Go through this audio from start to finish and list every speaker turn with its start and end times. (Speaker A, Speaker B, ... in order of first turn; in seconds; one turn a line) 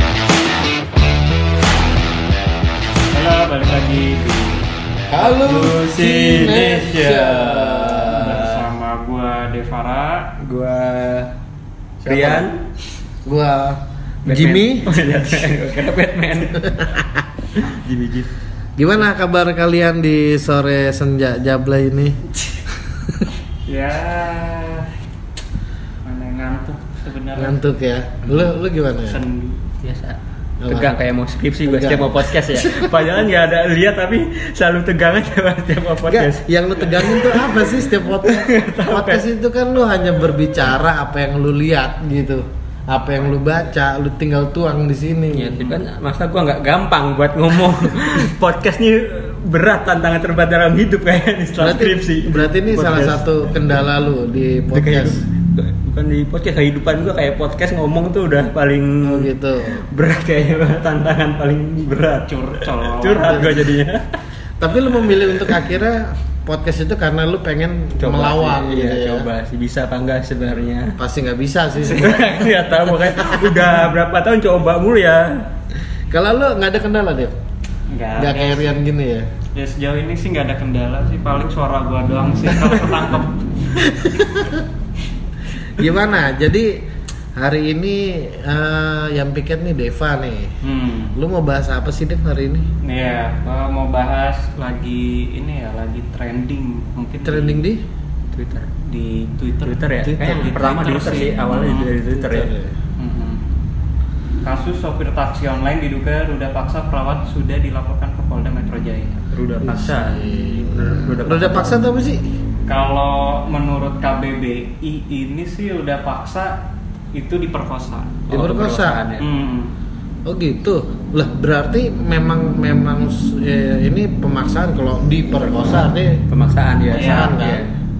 Speaker A: 3.1-4.7
Speaker B: 5.1-8.4
Speaker C: 5.2-8.7
Speaker A: 8.0-10.3
Speaker C: 10.4-11.3
Speaker B: 12.0-12.5
Speaker C: 12.1-12.6
Speaker B: 13.2-15.3
Speaker C: 14.3-16.8
Speaker B: 16.6-17.2
Speaker C: 17.6-18.3
Speaker B: 18.8-22.3
Speaker B: 22.9-23.3
Speaker A: 23.7-24.9
Speaker A: 26.0-27.6
Speaker B: 27.4-29.2
Speaker A: 29.0-29.7
Speaker C: 29.8-39.2
Speaker B: 30.6-31.0
Speaker B: 31.6-32.9
Speaker B: 36.1-45.7
Speaker C: 45.3-53.4
Speaker B: 51.6-55.2
Speaker C: 54.7-59.3
Speaker B: 59.0-59.8
Speaker C: 59.9-64.1
Speaker A: 62.3-63.7
Speaker B: 63.1-63.7
Speaker B: 64.6-69.3
Speaker C: 65.1-65.6
Speaker C: 68.0-71.0
Speaker B: 71.0-72.3
Speaker C: 71.8-75.5
Speaker B: 73.2-73.7
Speaker B: 76.1-77.3
Speaker A: 77.9-78.7
Speaker B: 78.2-79.3
Speaker A: 79.5-83.9
Speaker B: 83.8-84.7
Speaker B: 85.8-86.8
Speaker B: 87.4-90.5
Speaker A: 90.6-91.2
Speaker B: 91.2-92.7
Speaker A: 92.8-97.6
Speaker B: 97.2-97.8
Speaker C: 98.3-98.7
Speaker A: 98.8-101.9
Speaker C: 99.7-102.5
Speaker B: 100.0-100.5
Speaker B: 102.2-102.8
Speaker A: 103.0-103.4
Speaker A: 104.4-109.3
Speaker C: 109.3-111.9
Speaker B: 109.6-112.2
Speaker A: 112.7-116.6
Speaker A: 117.1-118.2
Speaker C: 118.3-119.2
Speaker B: 118.3-119.0
Speaker A: 119.2-119.7
Speaker B: 120.3-126.2
Speaker C: 126.3-127.7
Speaker B: 126.9-127.7
Speaker A: 126.9-127.5